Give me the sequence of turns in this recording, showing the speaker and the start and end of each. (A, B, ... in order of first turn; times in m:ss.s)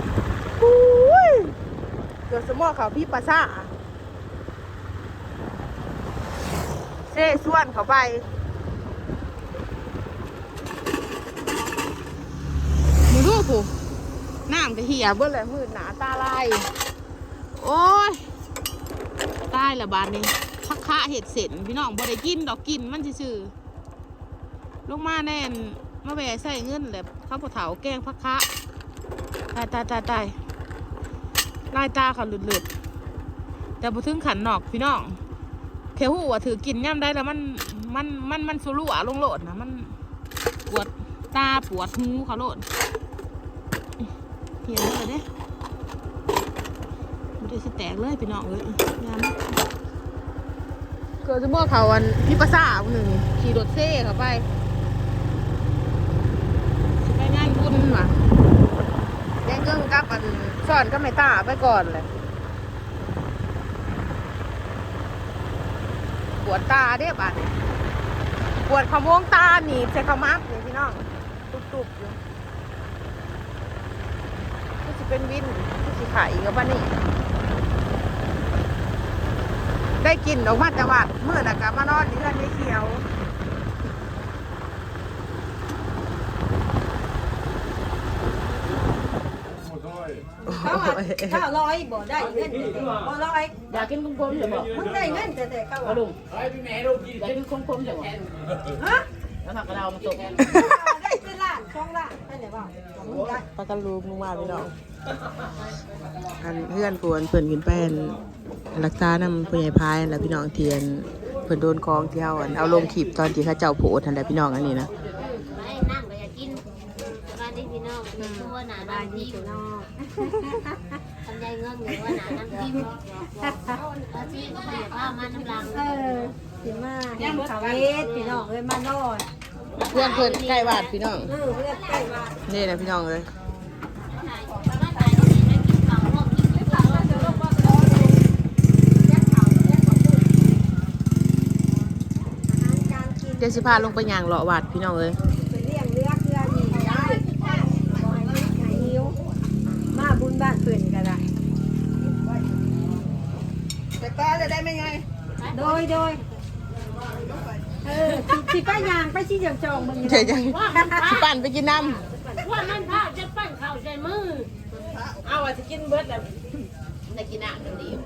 0:00.6-0:01.5 A
0:02.3-0:03.7 A
0:07.1-0:08.2 A
0:13.1-0:13.7 A
0:14.5-0:16.7 A
0:17.6-0:18.2 A
0:19.5-0:23.5 A
0:24.9-0:28.5 A
0:29.5-0:30.4 A
0:31.7-0:32.7 A
0:33.8-0:35.2 A
0:36.0-0:39.9 A
0:40.7-0:42.6 A
0:44.6-0:45.3 A
0:47.4-0:49.4 A
0:51.2-0:54.4 A
0:57.0-0:58.2 A
0:59.4-1:02.1 A
1:06.4-1:07.5 A
1:08.7-1:12.2 A
1:14.8-1:17.0 A
1:20.0-1:23.1 A
1:30.4-1:33.6 B
1:30.5-1:31.4 A
1:33.7-1:34.7 C
1:34.6-1:36.0 B
1:36.0-1:38.2 C
1:38.8-1:39.1 B
1:39.4-1:40.3 C
1:40.4-1:43.5 B
1:40.4-1:40.7 A
1:43.5-1:44.7 A
1:46.4-1:48.2 A
1:48.7-1:54.9 A
1:55.2-1:59.6 D
1:58.2-1:58.5 A
1:58.8-2:01.0 B
2:01.2-2:06.0 D
2:03.4-2:03.8 B
2:05.7-2:09.2 B
2:07.2-2:08.5 D
2:09.8-2:12.1 D
2:09.9-2:11.3 A
2:11.3-2:12.4 B
2:12.5-2:13.3 A
2:14.1-2:17.7 D
2:16.6-2:18.2 B
2:19.0-2:20.3 B
2:22.5-2:24.0 B
2:23.4-2:25.2 A
2:25.3-2:29.2 B
2:29.9-2:31.2 B
2:34.0-2:35.0 A
2:35.4-2:35.8 D
2:35.5-2:36.2 B
2:37.8-2:41.1 B
2:40.0-2:42.0 A
2:40.5-2:41.3 D
2:42.4-2:44.5 D
2:45.2-2:46.2 A
2:45.3-2:45.6 C
2:47.4-2:47.8 A